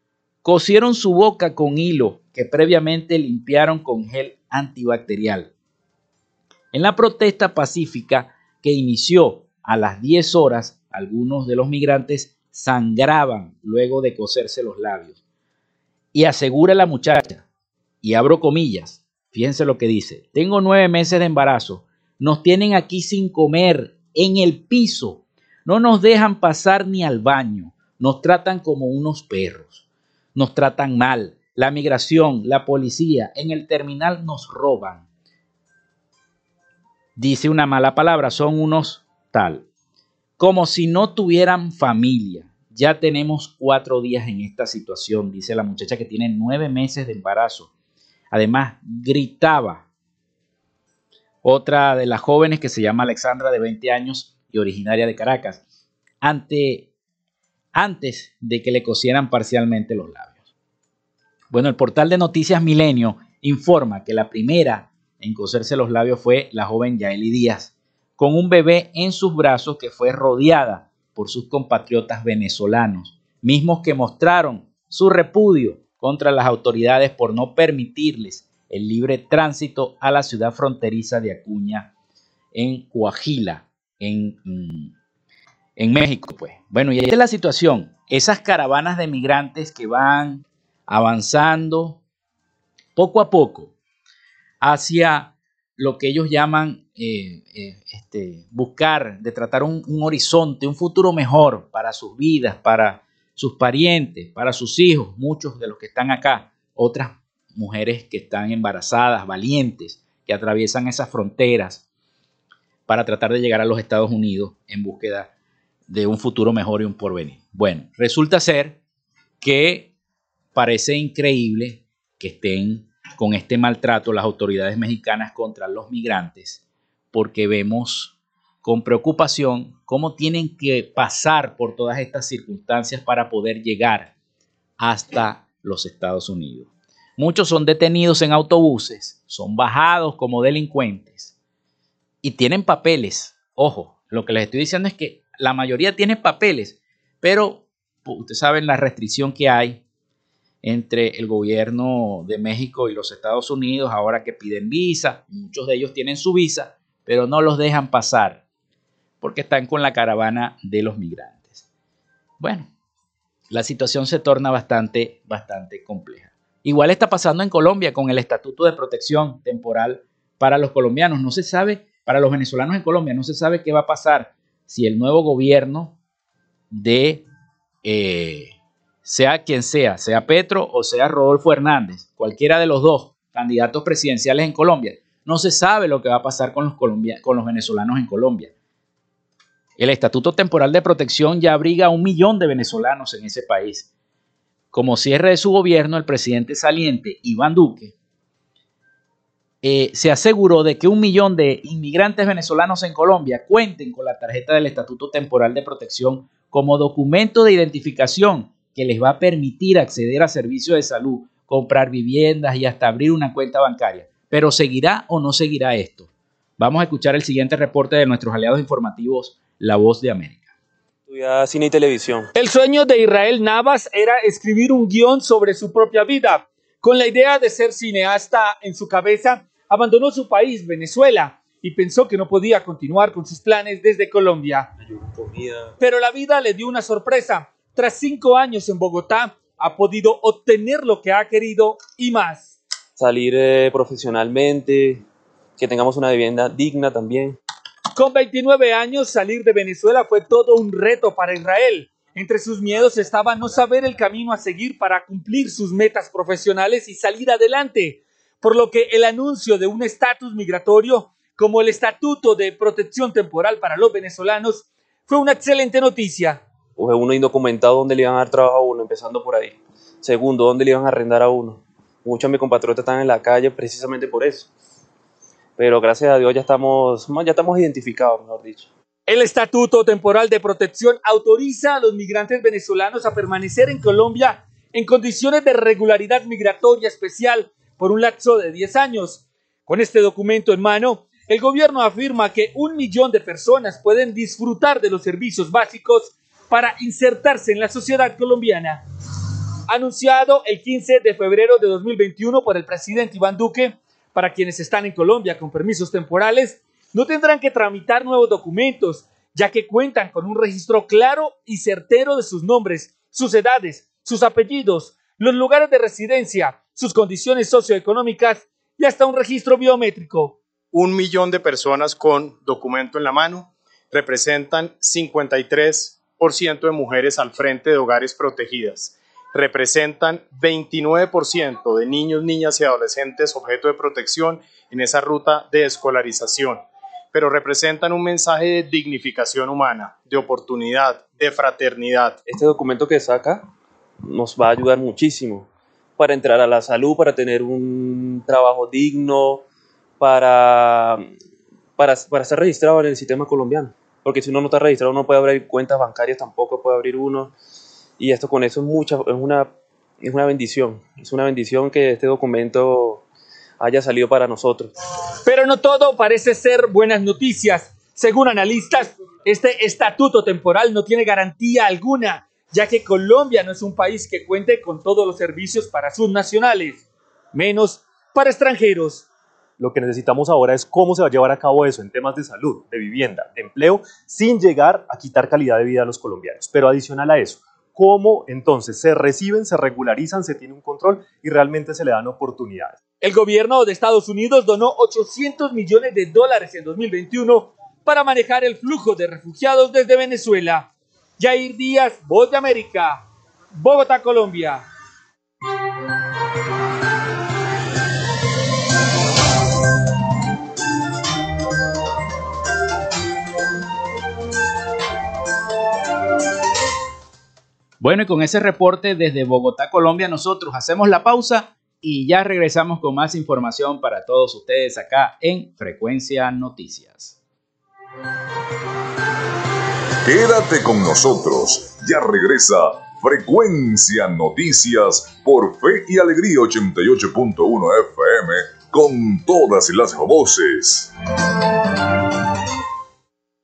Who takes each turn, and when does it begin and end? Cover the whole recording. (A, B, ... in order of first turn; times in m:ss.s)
0:00.4-0:05.5 A
0:06.7-0:15.2 A
0:16.1-0:17.4 A
0:18.0-0:29.8 A
0:30.3-0:35.0 A
0:37.2-0:39.6 A
0:40.4-0:47.7 A
0:48.3-0:49.8 A
0:51.4-0:55.6 A
0:56.2-0:56.9 A
0:57.7-1:00.4 A
1:01.5-1:21.9 A
1:22.5-1:24.9 A
1:25.8-1:32.0 A
1:33.0-1:33.7 A
1:34.6-1:51.8 A
1:52.9-1:55.3 A
1:55.9-1:58.8 A
1:59.4-1:59.9 A
2:00.5-2:06.6 A
2:07.1-2:14.1 A
2:14.8-2:21.3 A
2:22.2-2:29.8 A
2:30.6-2:38.4 A
2:39.2-2:41.6 A
2:42.4-2:42.7 A
2:43.5-2:55.9 A
2:56.7-2:57.2 A
2:57.8-2:58.5 A
2:59.0-3:08.5 A
3:09.8-3:13.9 A
3:14.7-3:17.9 A
3:19.6-3:40.5 A
3:41.1-3:42.3 B
3:42.3-3:54.7 C
3:54.8-3:55.7 B
3:55.8-4:02.5 C
4:03.0-4:05.0 B
4:05.6-4:07.4 B
4:08.0-4:26.4 C
4:26.8-4:34.5 B
4:35.6-4:38.7 B
4:39.1-4:58.8 C
4:59.7-5:20.4 C
5:20.7-5:42.2 D
5:42.2-5:43.5 B
5:44.0-5:49.4 B
5:50.0-5:51.1 B
5:51.8-5:57.3 B
5:58.0-6:03.0 B
6:03.6-6:04.7 B
6:05.2-6:19.0 C
6:19.6-6:32.8 E
6:33.0-6:44.6 C
6:57.8-7:07.2 A
7:10.0-7:20.9 F